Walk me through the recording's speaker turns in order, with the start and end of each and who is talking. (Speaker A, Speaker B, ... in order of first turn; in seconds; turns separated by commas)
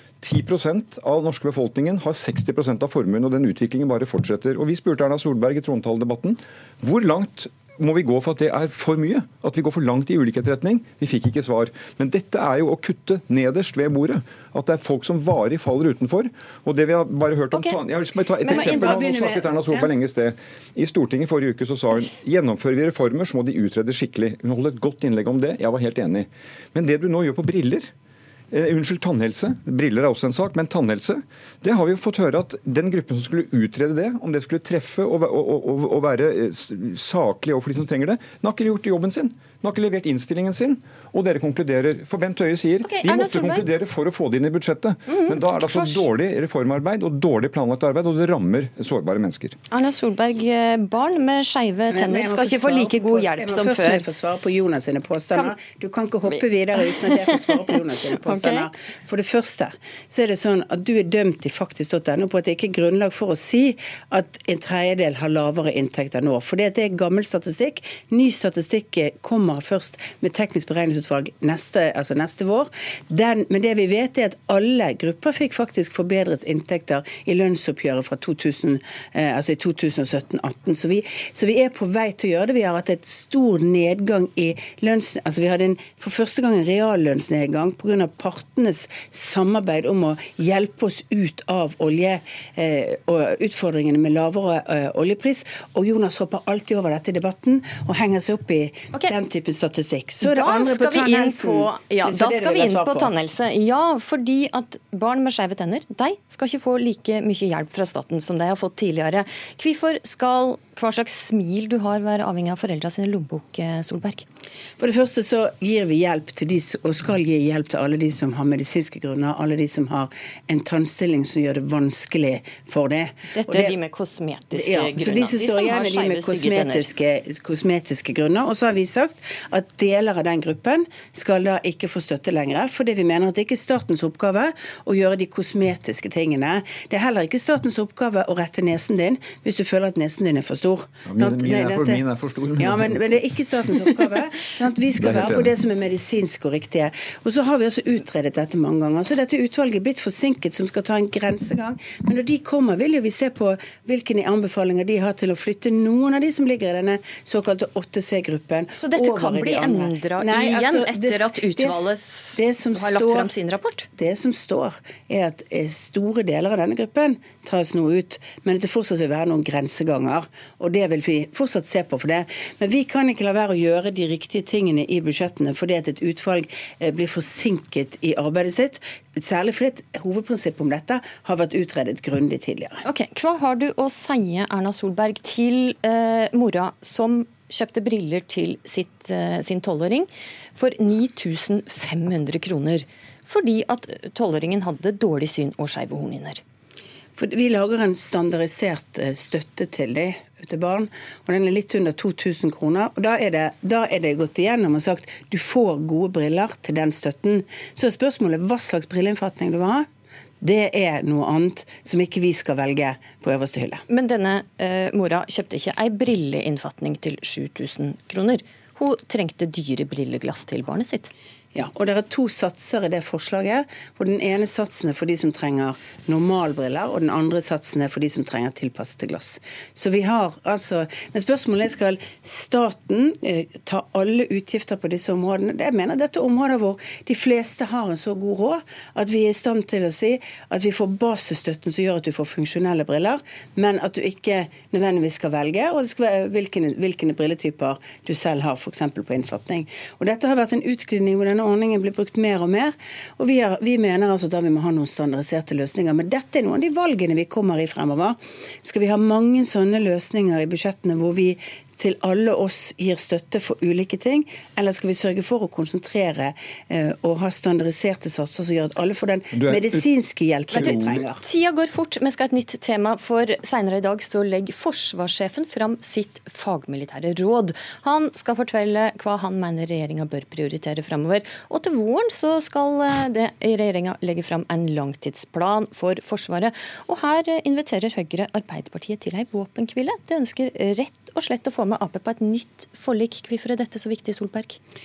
Speaker A: 0.2-27.9, Speaker B: 17.5-17.8, Speaker B: 18.4-19.1, Speaker C: 18.5-19.5, Speaker A: 28.5-49.6, Speaker B: 42.8-43.7, Speaker B: 45.1-46.0, Speaker B: 49.7-54.0, Speaker C: 51.9-103.1, Speaker B: 57.1-58.7, Speaker B: 100.2-114.2, Speaker C: 114.8-123.8, Speaker B: 123.3-126.9, Speaker C: 124.5-142.0, Speaker A: 141.1-143.0, Speaker C: 142.6-163.3, Speaker A: 145.0-145.5, Speaker B: 158.7-163.9, Speaker C: 164.0-182.8, Speaker B: 182.8-196.4, Speaker C: 197.2-209.9, Speaker C: 210.4-213.8, Speaker B: 213.9-221.1, Speaker C: 221.5-271.2, Speaker A: 269.3-269.9, Speaker A: 270.5-271.1, Speaker B: 270.5-294.6